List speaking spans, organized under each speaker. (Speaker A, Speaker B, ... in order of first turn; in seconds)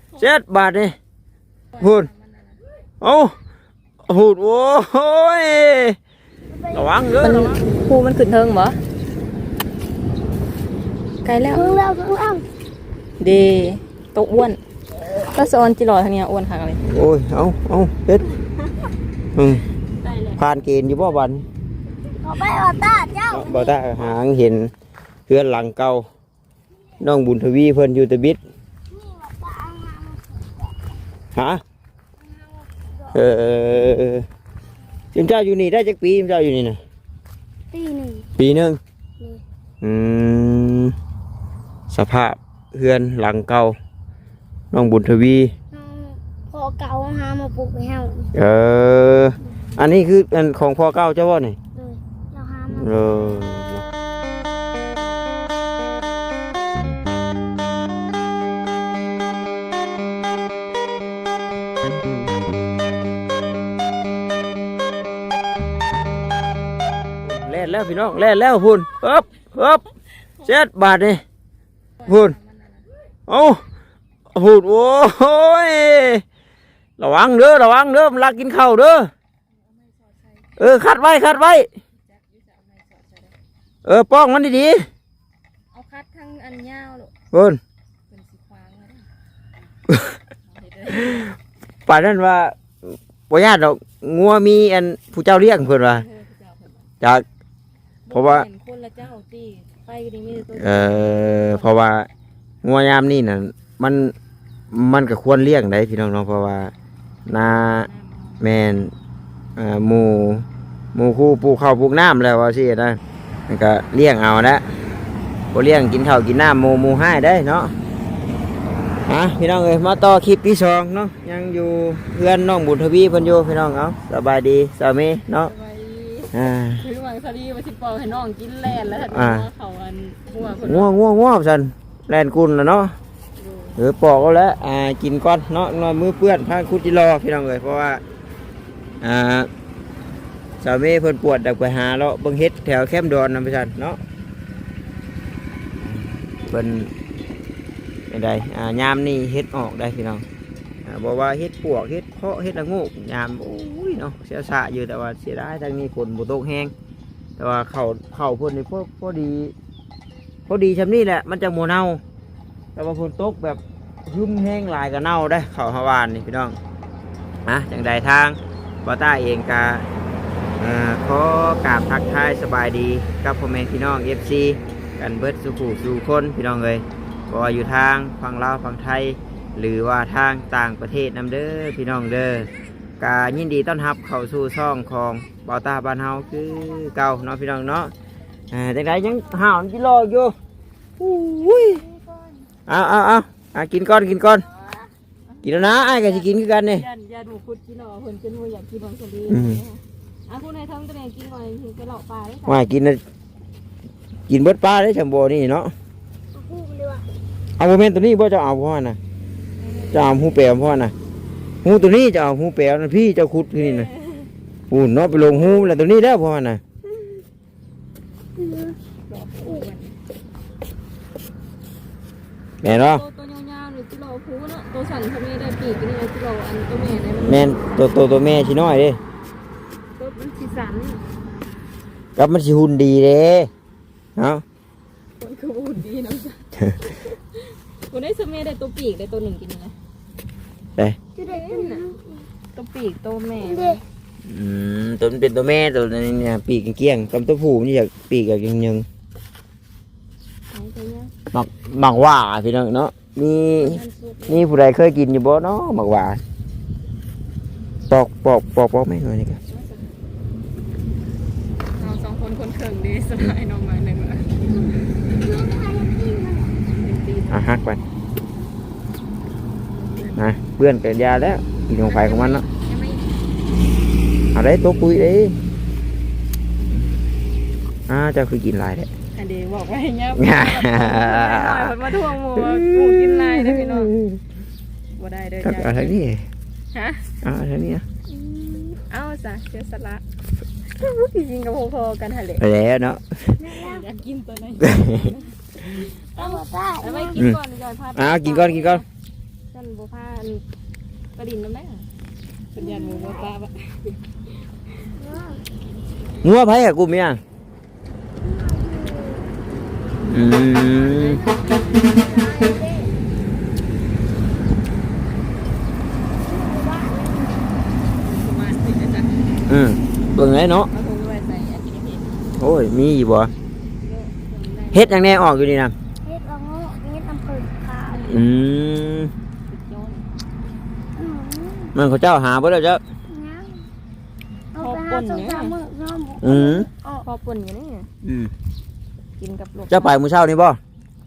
Speaker A: 0.2-1.0, 1.8-2.1, 3.0-3.4, 4.1-6.0, 6.7-7.6, 16.8-18.2, 19.4-19.6, 20.4-21.4, 23.3-24.7, 25.3-26.1, 27.0-28.4, 31.3-31.6, 33.1-34.2, 35.1-36.8, 38.4-38.8, 39.8-40.9, 41.9-43.8, 44.7-45.5, 48.3-51.6, 52.7-53.8, 67.2-69.8, 70.4-71.2, 72.0-72.3, 73.3-73.6, 74.3-76.2, 77.0-79.1, 80.6-81.7, 83.8-84.9, 87.3-87.6, 89.9-90.1, 91.0-91.3, 91.9-96.0, 98.1-98.5, 100.5-102.1, 102.6-104.1, 104.7-106.7, 107.3-107.9, 108.4-108.9, 109.6-114.6, 115.5-117.7, 119.1-125.5, 126.3-126.8, 129.1-129.5, 130.6-132.9, 133.8-138.0, 139.0-139.5, 140.6-144.0, 145.8-146.9, 148.1-150.2, 150.8-156.7, 157.4-159.5, 160.5-162.0, 162.8-166.6, 167.4-169.8, 170.6-187.9, 188.5-190.3, 191.0-191.8, 192.7-194.4, 195.4-196.8, 199.3-199.6, 202.5-203.0, 204.3-205.7, 207.6-209.0, 209.9-210.9, 211.6-213.9, 214.7-216.6, 222.6-223.0, 227.2-229.0, 232.2-233.5, 234.2-234.4, 244.2-248.8, 251.3-256.2, 257.9-259.4, 267.3-267.8, 270.1-272.4, 274.3-275.4, 277.9-278.9, 280.1-281.8, 282.3-284.2, 285.4-286.2, 287.2-287.8, 292.4-293.4, 294.6-295.1, 297.9-298.8, 306.2-307.2, 310.1-311.2, 319.5-320.7, 322.4-323.3, 324.7-325.7, 328.1-329.1, 331.7-332.8, 336.2-336.7, 338.0-338.3, 339.7-340.6
Speaker B: 1.7-2.6, 7.2-8.8, 11.2-11.8, 13.2-14.6, 15.3-16.8, 20.0-20.4, 72.0-72.8, 79.7-80.5, 82.1-83.3, 85.7-87.1, 88.1-89.1, 90.5-91.3, 95.9-96.8, 98.1-101.7, 107.5-108.4, 125.5-130.9, 133.4-133.8, 191.4-192.3, 195.3-202.6, 209.6-210.0, 213.6-214.3, 219.1-219.9, 222.7-227.9, 230.0-231.0, 235.2-239.7, 241.2-241.9, 242.5-243.8, 250.5-251.1, 253.5-254.5, 259.5-259.9, 261.8-264.4, 266.8-267.4, 269.7-270.2, 271.8-273.1, 279.1-283.9, 284.9-285.9, 286.7-287.1, 288.9-290.0, 290.6-292.4, 293.5-298.8, 299.5-300.4, 301.1-301.9, 302.5-304.0, 310.4-312.3, 317.9-319.3, 320.7-322.3, 323.8-325.1, 329.5-330.1, 334.6-335.5, 337.0-337.9, 339.2-339.9
Speaker C: 6.5-7.1, 11.5-12.4, 22.2-23.8, 28.9-30.9, 32.2-33.2, 37.7-38.3, 45.7-48.3, 51.7-53.3, 186.4-187.0, 206.3-207.1, 218.3-218.8, 219.4-219.7, 241.2-242.3, 243.4-243.8, 264.6-266.6, 288.1-288.8, 293.4-293.9, 296.1-297.2, 302.6-303.3, 304.9-305.4, 308.2-309.4, 311.2-312.9, 316.1-317.5, 326.0-328.1, 330.9-331.7, 333.1-333.7, 334.5-337.1